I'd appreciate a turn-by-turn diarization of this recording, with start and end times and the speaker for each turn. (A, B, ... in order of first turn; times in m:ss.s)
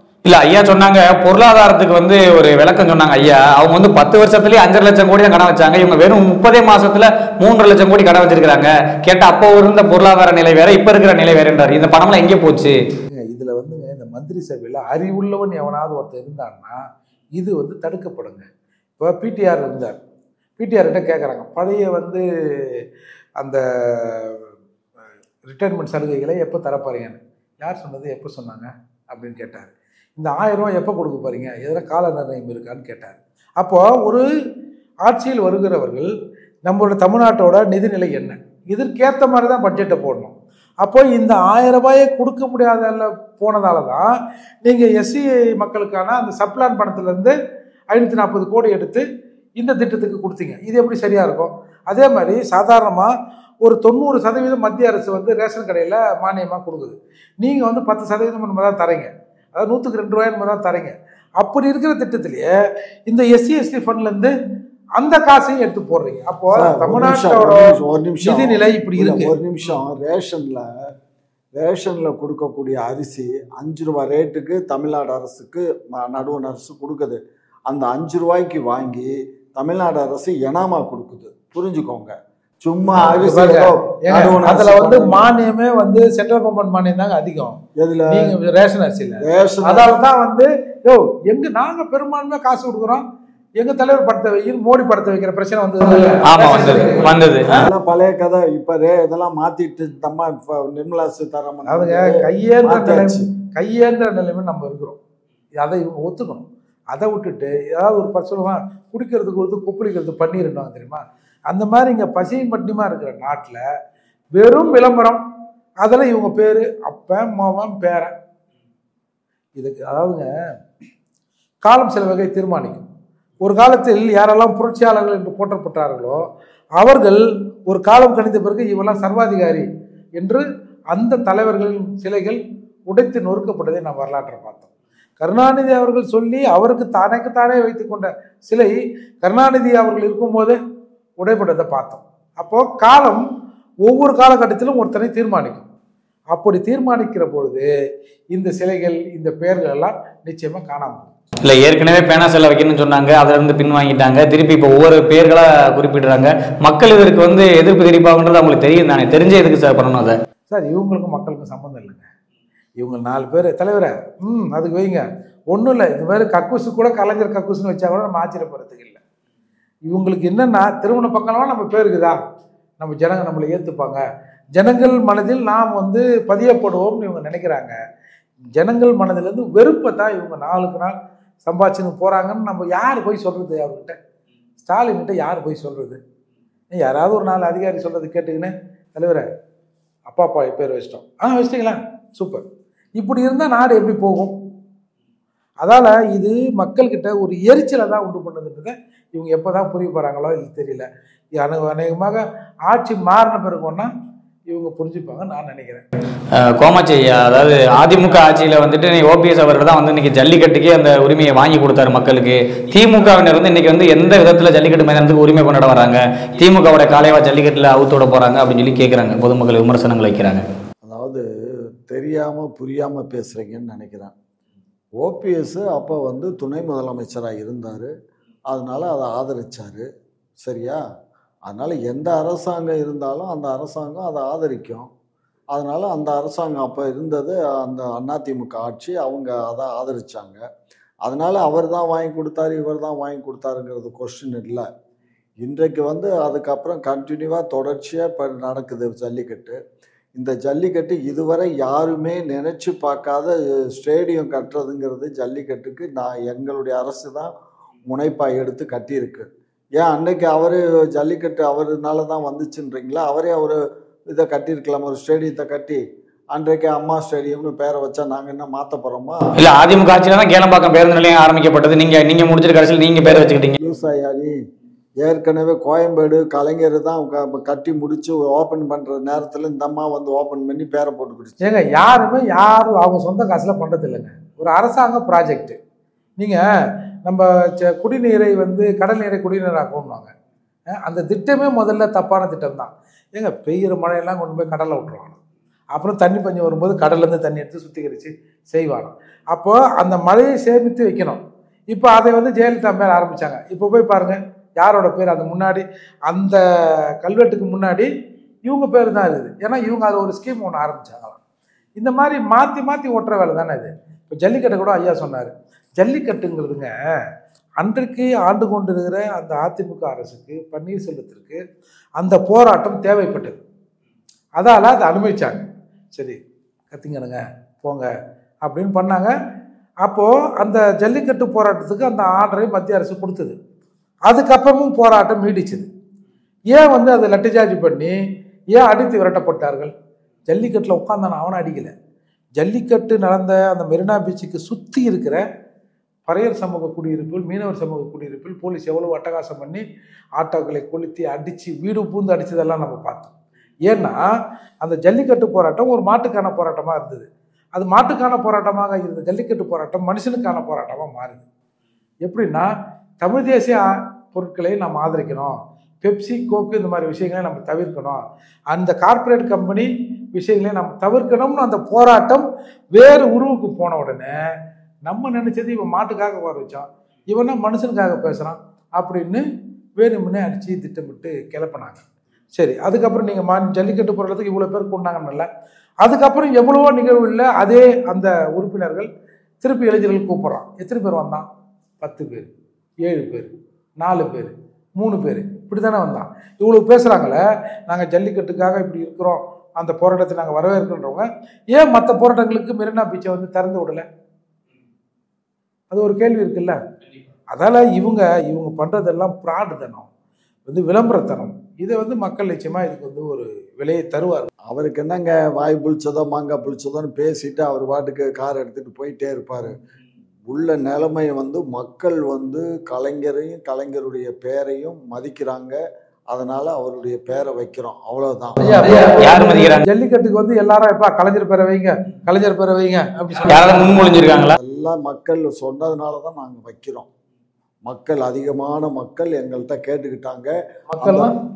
0:00.2-0:12.8 A
0:13.1-0:16.8 B
0:17.4-0:18.5 B
0:19.0-0:20.0 B
0:20.6-0:22.8 B
0:23.4-0:24.5 B
0:25.4-0:34.3 B
0:35.0-0:36.1 B
0:36.6-0:44.1 B
0:44.6-0:47.3 B
0:47.9-0:49.1 B
0:49.6-0:53.1 B
0:53.6-1:02.5 B
1:03.1-1:04.3 B
1:05.0-1:09.3 B
1:06.5-1:10.7 C
1:11.6-1:25.3 C
1:23.0-1:27.6 B
1:27.8-1:28.4 C
1:28.1-1:33.0 B
1:29.2-1:30.0 C
1:33.6-1:37.7 B
1:36.2-1:37.6 A
1:37.6-1:43.2 C
1:41.7-1:45.0 B
1:45.6-1:53.6 B
1:54.4-1:55.2 B
1:55.8-1:58.1 B
1:59.6-2:00.3 B
2:01.6-2:02.9 B
2:03.4-2:06.2 B
2:06.8-2:09.6 B
2:10.2-2:14.7 B
2:15.2-2:20.6 B
2:21.2-2:23.2 B
2:23.8-2:25.7 B
2:26.3-2:27.7 B
2:28.3-2:31.1 B
2:31.4-2:40.2 A
2:40.5-2:42.1 B
2:42.8-2:49.0 B
2:49.9-2:52.2 B
2:52.8-2:54.0 B
2:54.6-2:57.8 B
2:58.6-3:04.0 B
3:04.6-3:06.0 B
3:06.7-3:09.3 B
3:10.1-3:12.4 B
3:13.0-3:14.4 B
3:15.6-3:23.9 B
3:24.5-3:25.8 B
3:26.4-3:40.4 A
3:40.8-3:41.2 C
3:41.9-3:44.1 C
3:45.0-3:47.9 C
3:48.5-3:49.9 C
3:50.4-3:50.8 C
3:51.5-3:54.9 C
3:55.5-4:00.4 C
4:01.0-4:04.7 C
4:05.4-4:09.6 C
4:10.2-4:17.3 C
4:17.9-4:19.3 C
4:19.8-4:23.6 C
4:24.1-4:25.8 C
4:26.3-4:29.4 C
4:29.4-4:33.6 A
4:33.0-4:34.4 C
4:35.0-4:41.4 C
4:41.4-4:45.6 B
4:46.2-4:46.4 B
4:47.0-4:50.1 B
4:50.7-4:55.2 B
4:55.7-5:06.4 B
5:07.0-5:07.9 B
5:08.4-5:11.2 B
5:11.8-5:16.7 B
5:17.6-5:21.4 B
5:22.0-5:23.4 B
5:24.4-5:26.2 B
5:26.7-5:27.9 B
5:28.4-5:29.1 B
5:29.8-5:33.3 B
5:34.1-5:35.7 B
5:36.5-5:38.0 B
5:38.5-5:39.7 B
5:40.3-5:41.7 B
5:42.4-5:45.2 B
5:46.1-5:49.6 B
5:50.2-5:53.1 B
5:53.7-5:54.0 B
5:54.6-6:01.2 B
6:02.0-6:02.5 B
6:03.0-6:14.2 B
6:14.8-6:19.2 B
6:19.8-6:21.8 B
6:22.4-6:25.3 B
6:25.8-6:28.9 B
6:29.4-6:31.3 B
6:31.8-6:32.3 B
6:32.8-6:43.8 B
6:45.7-6:46.6 B
6:47.3-6:49.9 B
6:50.5-6:54.3 B
6:54.5-6:59.6 C
7:00.3-7:05.6 C
7:06.1-7:08.5 C
7:08.4-7:13.8 B
7:08.6-7:09.7 A
7:13.3-7:14.4 A
7:13.6-7:16.9 C
7:17.7-7:21.1 C
7:20.7-7:21.1 B